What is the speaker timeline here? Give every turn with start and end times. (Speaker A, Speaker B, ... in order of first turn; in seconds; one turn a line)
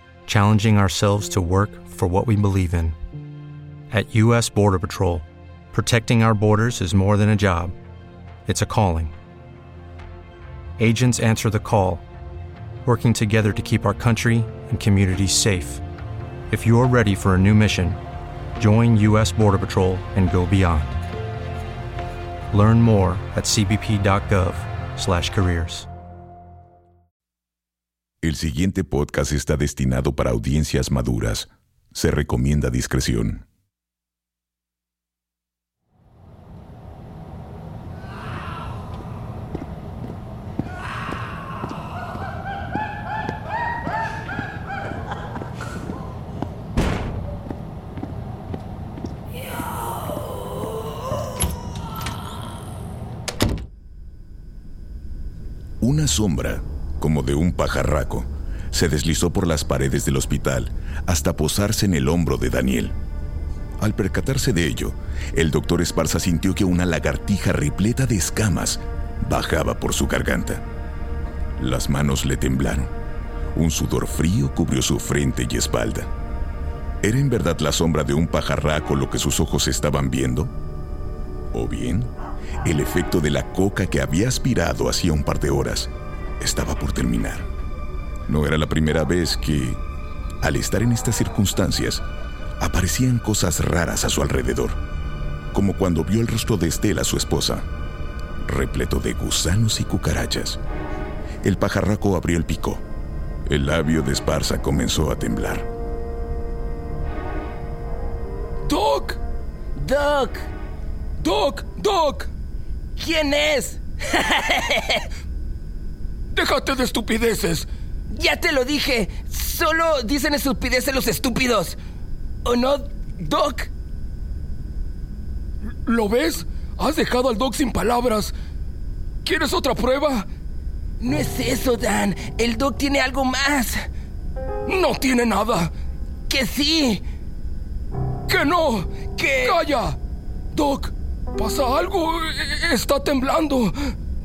Speaker A: 0.3-3.0
Speaker A: 3.9-7.7
Speaker A: 8.4-9.1
Speaker A: 10.8-12.0
Speaker A: 12.8-15.8
Speaker A: 16.5-18.0
Speaker A: 18.6-21.0
Speaker A: 22.5-25.9
Speaker B: 28.2-33.4
Speaker B: 55.8-63.0
Speaker B: 63.8-70.6
Speaker B: 71.6-72.9
Speaker B: 73.5-76.1
Speaker B: 77.0-80.5
Speaker B: 81.5-82.1
Speaker B: 82.6-87.5
Speaker B: 88.3-89.8
Speaker B: 90.4-92.0
Speaker B: 92.6-94.8
Speaker B: 95.5-97.7
Speaker B: 98.4-100.6
Speaker B: 101.4-102.8
Speaker B: 103.5-105.7
Speaker C: 108.7-109.2
Speaker D: 109.8-110.5
Speaker C: 111.2-112.3
Speaker D: 113.0-115.0
Speaker C: 116.3-117.7
Speaker D: 118.1-121.8
Speaker D: 122.4-123.7
Speaker C: 125.8-128.3
Speaker C: 129.2-130.3
Speaker D: 131.0-133.8
Speaker C: 134.7-135.7
Speaker D: 136.3-137.0
Speaker C: 138.3-140.0
Speaker D: 139.2-139.6
Speaker C: 140.5-143.9